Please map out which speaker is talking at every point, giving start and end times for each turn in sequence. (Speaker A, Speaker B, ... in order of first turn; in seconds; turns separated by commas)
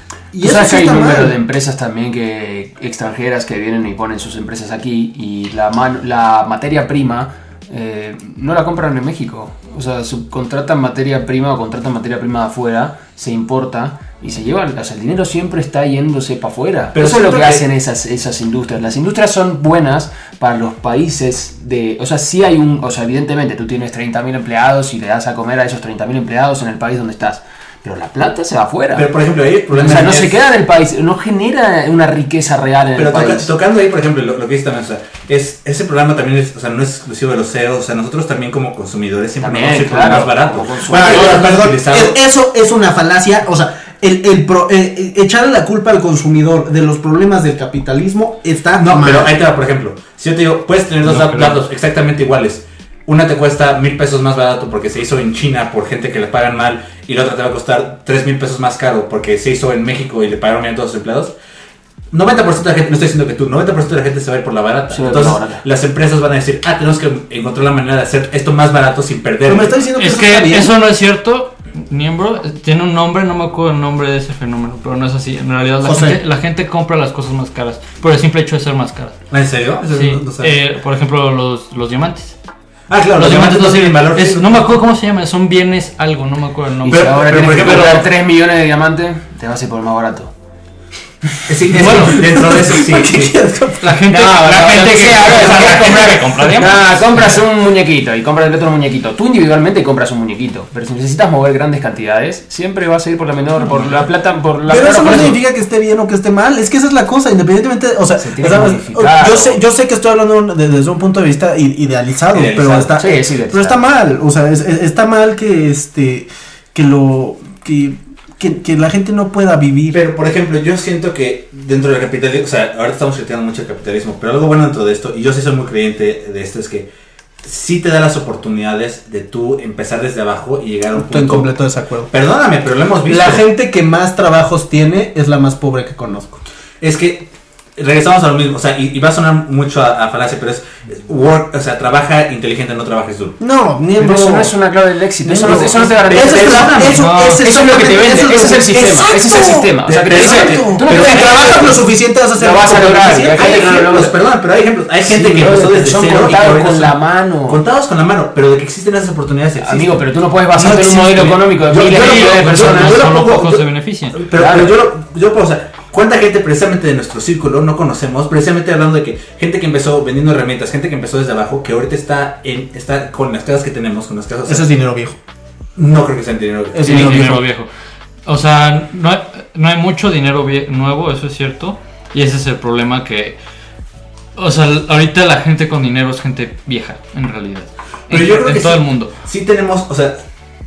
Speaker A: 0.3-1.3, Speaker B: 0.4-29.1, Speaker C: 16.9-17.6, Speaker C: 28.9-30.4, Speaker B: 29.7-33.5, Speaker C: 33.0-42.2, Speaker B: 39.4-41.6, Speaker A: 40.9-49.3, Speaker C: 48.8-61.3, Speaker D: 51.0-51.6, Speaker C: 62.1-69.8, Speaker B: 64.9-65.6, Speaker A: 69.5-70.7, Speaker D: 70.0-79.2, Speaker A: 75.8-76.2, Speaker C: 79.3-80.5, Speaker D: 79.9-82.3, Speaker C: 82.9-84.7, Speaker D: 83.1-88.1, Speaker B: 86.8-90.3, Speaker C: 86.9-88.1, Speaker C: 91.5-93.4, Speaker D: 91.7-92.2, Speaker A: 91.8-94.0, Speaker D: 93.8-97.4, Speaker B: 94.1-105.4, Speaker C: 95.4-96.1, Speaker D: 103.6-104.0, Speaker A: 104.7-120.0, Speaker B: 108.2-109.6, Speaker C: 112.3-113.0, Speaker B: 113.0-113.8, Speaker C: 119.9-126.9, Speaker C: 127.4-131.5, Speaker A: 130.9-132.1, Speaker C: 132.1-133.4, Speaker A: 133.1-136.4, Speaker C: 136.8-143.4, Speaker A: 143.4-144.5, Speaker B: 144.0-151.8, Speaker A: 145.2-153.6, Speaker C: 145.4-147.1, Speaker D: 147.0-147.4, Speaker C: 149.8-151.4, Speaker B: 152.3-154.2, Speaker C: 153.3-174.7, Speaker B: 155.1-157.6, Speaker B: 159.6-163.1, Speaker D: 161.9-164.2, Speaker B: 164.3-164.8, Speaker A: 174.4-175.2, Speaker C: 175.8-177.3, Speaker A: 176.7-177.4, Speaker D: 176.8-177.7, Speaker D: 178.2-183.4, Speaker D: 184.3-189.1, Speaker C: 188.1-190.2